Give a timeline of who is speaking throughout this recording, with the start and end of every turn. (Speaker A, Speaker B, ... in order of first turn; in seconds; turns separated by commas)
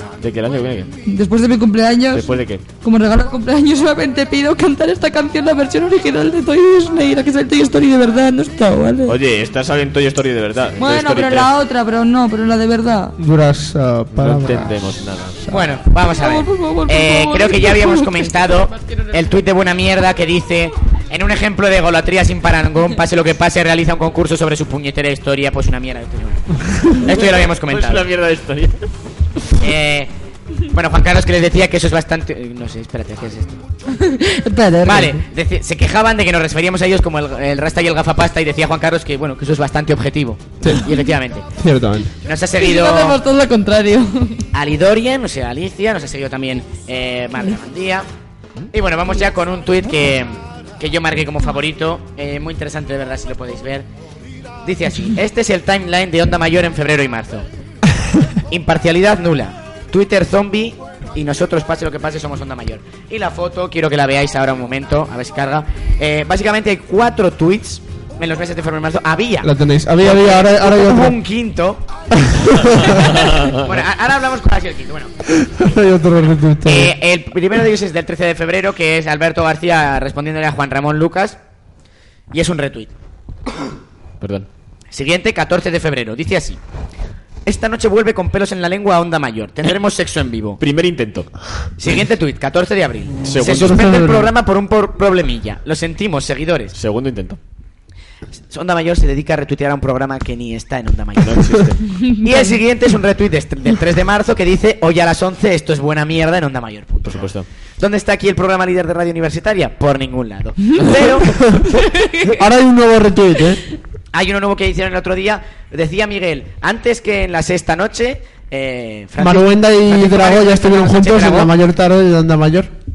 Speaker A: 0.2-0.9, Speaker B: 1.0-9.2, Speaker A: 2.1-2.6, Speaker A: 9.0-11.5, Speaker B: 10.8-13.2, Speaker C: 13.2-15.0, Speaker A: 14.1-15.4, Speaker D: 15.5-28.1, Speaker B: 16.1-18.2, Speaker A: 27.1-28.9, Speaker D: 29.6-30.1, Speaker D: 30.7-33.6, Speaker B: 34.0-35.2, Speaker D: 34.8-41.5, Speaker C: 41.6-42.1, Speaker D: 42.2-43.2, Speaker B: 42.6-44.4, Speaker D: 44.5-48.1, Speaker D: 48.7-53.9, Speaker D: 54.6-57.5, Speaker D: 58.5-71.8, Speaker C: 69.4-71.2, Speaker C: 72.2-72.9, Speaker D: 73.5-75.1, Speaker C: 75.4-76.9, Speaker D: 76.6-81.4, Speaker D: 82.3-82.9, Speaker A: 84.2-84.5, Speaker D: 84.9-86.6, Speaker D: 87.5-90.6, Speaker A: 90.6-91.6, Speaker D: 91.8-96.8, Speaker A: 93.2-93.8, Speaker C: 93.6-94.3, Speaker A: 96.7-97.4, Speaker D: 98.5-101.7, Speaker A: 101.2-101.8, Speaker D: 102.2-111.5, Speaker A: 107.0-107.5, Speaker C: 112.2-113.6, Speaker D: 114.1-121.5, Speaker C: 119.2-122.7